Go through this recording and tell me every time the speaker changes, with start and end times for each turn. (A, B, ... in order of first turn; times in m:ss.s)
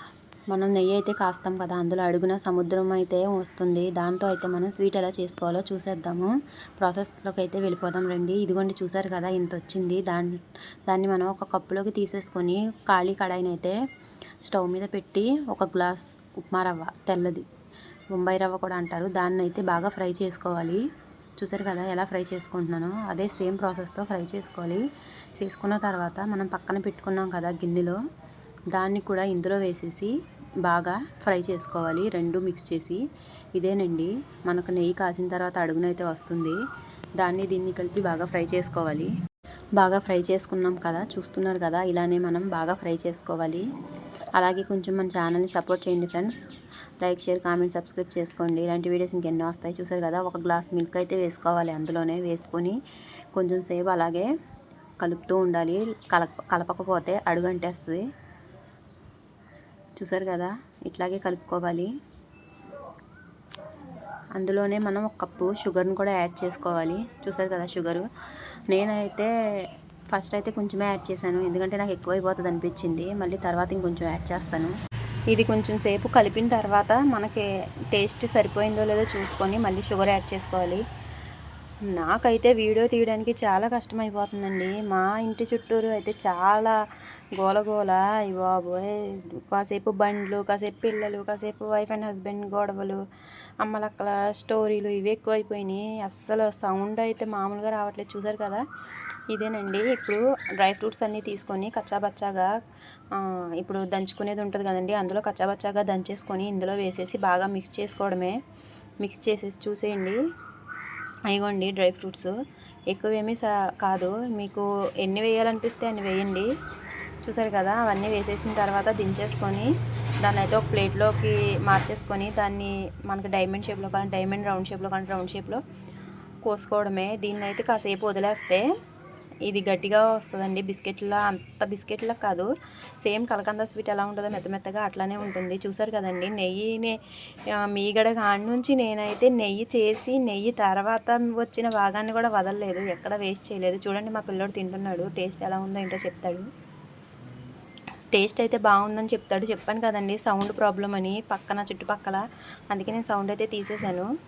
0:00.5-0:10.3 A
0:10.9-0:13.8 A
0:14.5-0:17.4 A
0:18.1-0:20.8 A
0:21.4-0:24.8 A
0:25.4-0:28.0 A
0:28.7-0:30.1 A
0:30.7-0:33.0 A
0:33.6-0:36.6 A
0:37.2-0:39.1 A
0:39.8-0:43.6 A
0:44.4-0:46.4 A
0:47.0-0:52.8 A
0:53.3-0:54.3 A
0:55.0-0:58.0 A
1:00.0-1:01.9 A
1:04.4-1:08.1 A
1:08.7-1:09.3 A
1:10.1-1:14.7 A
1:15.3-1:20.8 A
1:21.9-1:26.8 A
1:27.4-1:33.0 A
1:33.6-1:38.6 A
1:39.3-1:42.5 A
1:43.1-1:48.4 A
1:49.0-1:50.2 A
1:51.3-1:52.3 A
1:52.9-1:56.5 A
1:57.2-1:59.7 A
2:00.2-2:05.6 A
2:06.4-2:08.6 A
2:09.5-2:12.5 A
2:13.0-2:17.0 A
2:17.6-2:26.5 A
2:28.1-2:34.1 A